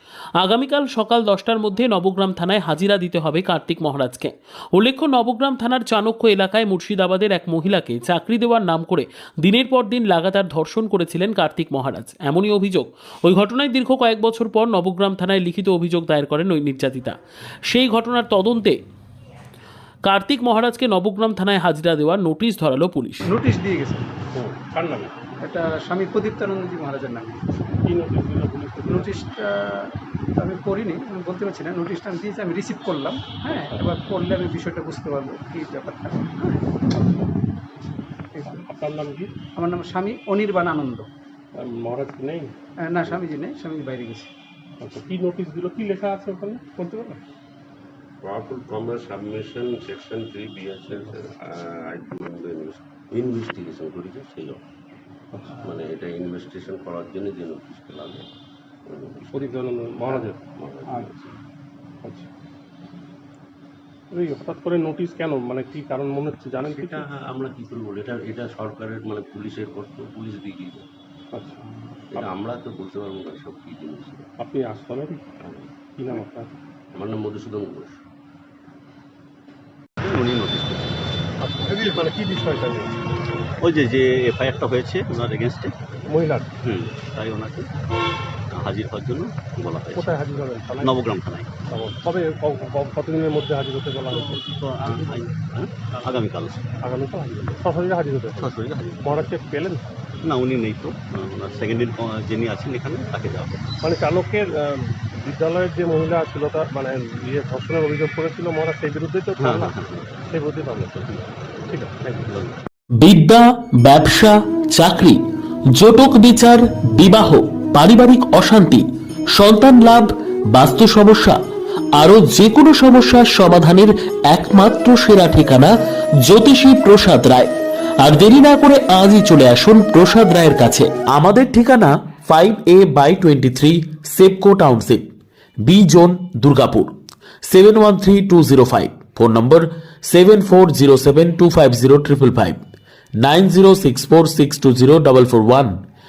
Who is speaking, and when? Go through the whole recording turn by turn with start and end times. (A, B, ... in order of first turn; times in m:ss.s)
0:00.4-0:18.8 A
0:20.0-0:23.3 A
0:23.2-0:24.1 B
0:24.3-0:25.1 C
0:25.4-0:27.4 B
0:27.8-0:29.1 C
0:28.9-0:36.7 B
0:33.5-0:33.8 C
0:38.4-0:39.3 C
0:39.6-0:41.1 B
0:41.6-0:42.5 C
0:42.8-0:44.3 B
0:44.8-0:47.2 C
0:48.2-0:54.6 D
0:55.3-0:55.6 C
0:55.5-0:58.3 D
0:58.9-1:01.3 D
0:59.3-1:00.4 C
1:04.1-1:07.1 C
1:06.6-1:10.9 D
1:11.3-1:11.6 C
1:12.1-1:14.3 D
1:14.4-1:15.3 C
1:15.4-1:16.2 D
1:16.0-1:16.5 C
1:16.9-1:18.0 D
1:20.0-1:21.1 E
1:21.4-1:22.9 C
1:23.6-1:25.8 E
1:26.1-1:26.5 C
1:26.6-1:27.7 E
1:28.5-1:30.1 E
1:29.9-1:31.0 C
1:30.8-1:31.5 E
1:31.7-1:35.2 C
1:34.1-1:36.6 E
1:36.8-1:39.8 C
1:38.4-1:39.3 E
1:40.2-1:43.7 E
1:43.8-1:52.4 C
1:49.4-1:50.1 E
1:53.0-1:55.2 A
1:55.8-1:58.8 A
1:59.3-2:01.4 A
2:02.0-2:05.7 A
2:06.2-2:07.5 A
2:08.0-2:15.0 A
2:15.6-2:16.9 A
2:17.4-2:22.6 A
2:23.2-2:25.8 A